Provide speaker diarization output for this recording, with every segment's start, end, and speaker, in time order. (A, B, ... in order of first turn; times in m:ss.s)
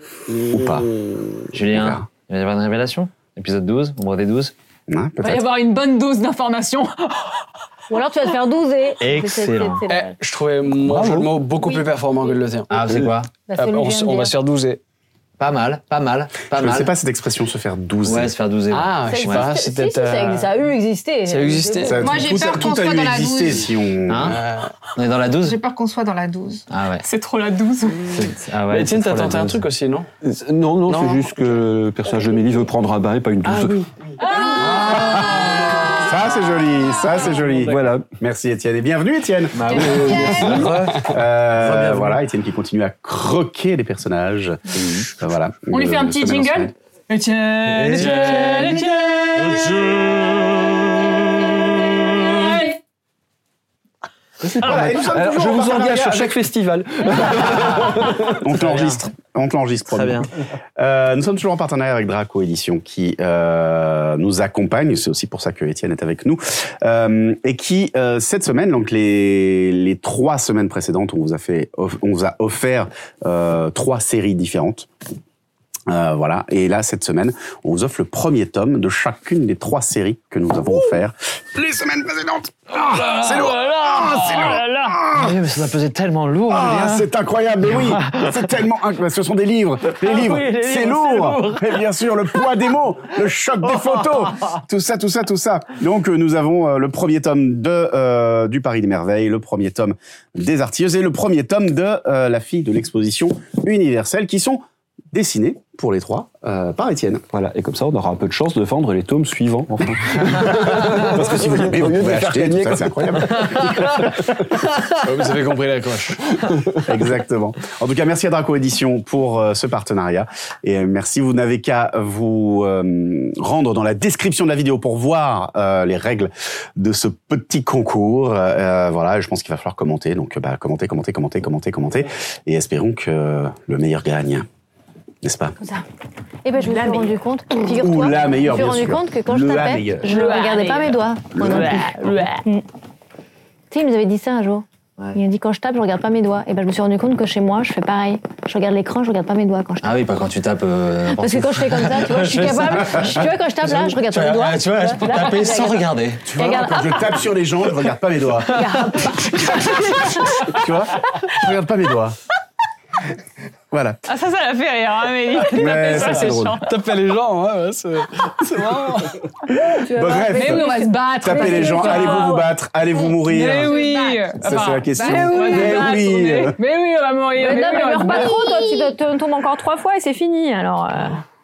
0:00.4-0:02.1 A
0:01.5-0:04.5 B
0:04.9-0:05.5 A
0:05.2-0:07.4 C
0:07.9-0:10.2 D
0:09.0-0:09.8 B
0:09.9-0:14.8 E
0:10.8-0:11.3 B
0:12.7-0:13.3 B
0:13.5-0:14.3 D
0:15.4-0:16.9 B
0:16.5-0:18.3 A
0:18.0-0:19.5 B
0:18.7-0:20.5 E
0:19.1-0:22.0 D
0:21.3-0:22.3 E
0:21.8-0:24.4 A
0:22.0-0:23.7 F
0:24.1-0:24.4 B
0:24.2-0:24.7 E
0:25.0-0:25.6 B
0:25.4-0:26.6 F
0:26.7-0:27.0 B
0:27.0-0:28.2 C
0:28.1-0:29.6 B
0:28.7-0:30.1 E
0:30.2-0:33.9 G
0:30.9-0:31.3 E
0:33.4-0:33.8 E
0:34.3-0:35.3 C
0:34.6-0:46.7 A
0:37.2-0:38.1 G
0:39.6-0:41.1 B
0:39.7-0:40.8 G
0:41.8-0:42.2 G
0:45.7-0:49.9 C
0:47.9-0:48.8 B
0:52.3-0:52.8 C
0:54.4-0:58.4 G
0:54.6-0:56.4 A
0:57.2-0:57.6 A
0:58.3-1:14.9 A
0:58.5-0:59.0 B
0:59.9-1:00.3 B
1:15.9-1:25.4 A
1:22.9-1:27.1 B
1:26.5-1:47.2 A
1:27.7-1:28.5 B
1:30.2-1:30.9 B
1:47.3-1:54.2 G
1:49.8-1:54.2 A
1:55.0-1:56.5 E
1:56.8-2:14.5 A
2:15.2-2:15.6 A
2:16.4-2:22.6 D
2:16.6-2:17.1 C
2:17.7-2:20.1 A
2:20.1-2:22.4 C
2:21.4-2:21.7 A
2:23.7-2:30.0 D
2:29.8-2:36.3 B
2:31.1-2:37.2 D
2:36.2-2:38.9 A
2:38.4-2:40.5 D
2:40.4-2:42.2 A
2:43.7-2:44.0 A
2:44.1-2:46.7 C
2:45.5-2:46.6 A
2:45.9-2:49.2 E
2:49.5-2:50.7 A
2:49.7-2:52.5 D
2:50.2-2:52.4 C
2:51.2-2:53.8 A
2:53.1-2:58.8 C
2:53.7-2:54.3 F
2:54.4-2:56.6 A
2:55.0-2:55.9 D
2:57.4-3:01.2 D